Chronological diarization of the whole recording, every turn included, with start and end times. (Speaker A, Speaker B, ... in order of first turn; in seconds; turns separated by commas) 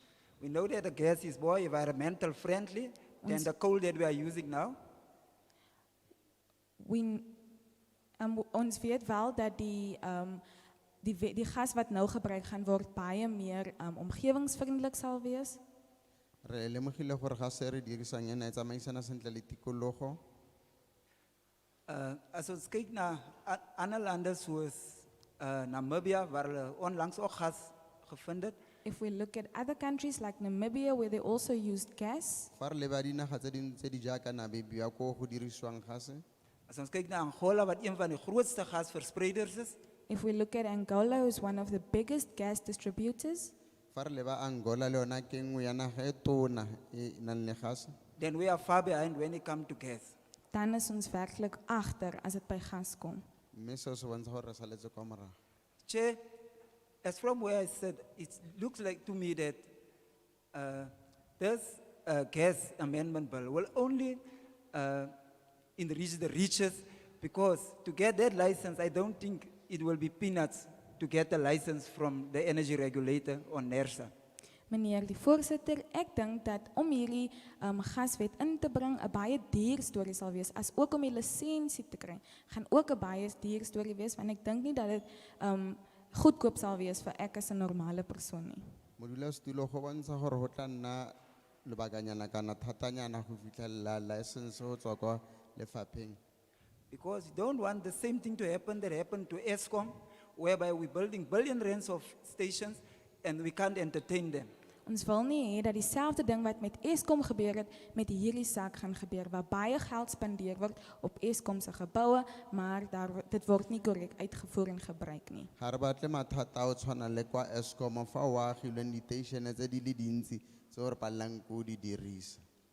Speaker A: 0.4-4.8, Speaker B: 3.2-3.5, Speaker B: 6.8-7.4, Speaker B: 8.2-10.4, Speaker B: 11.0-15.6, Speaker C: 16.4-20.2, Speaker A: 21.9-28.6, Speaker B: 28.9-32.5, Speaker C: 32.6-36.2, Speaker A: 36.7-39.8, Speaker B: 40.1-43.5, Speaker C: 43.9-48.0, Speaker A: 48.2-50.1, Speaker B: 50.5-53.2, Speaker C: 53.5-55.4, Speaker A: 55.9-56.2, Speaker A: 57.0-59.7, Speaker A: 60.5-65.1, Speaker A: 65.8-74.1, Speaker B: 74.7-88.6, Speaker C: 89.0-96.2, Speaker A: 96.9-104.5, Speaker B: 104.9-115.5, Speaker C: 115.6-122.4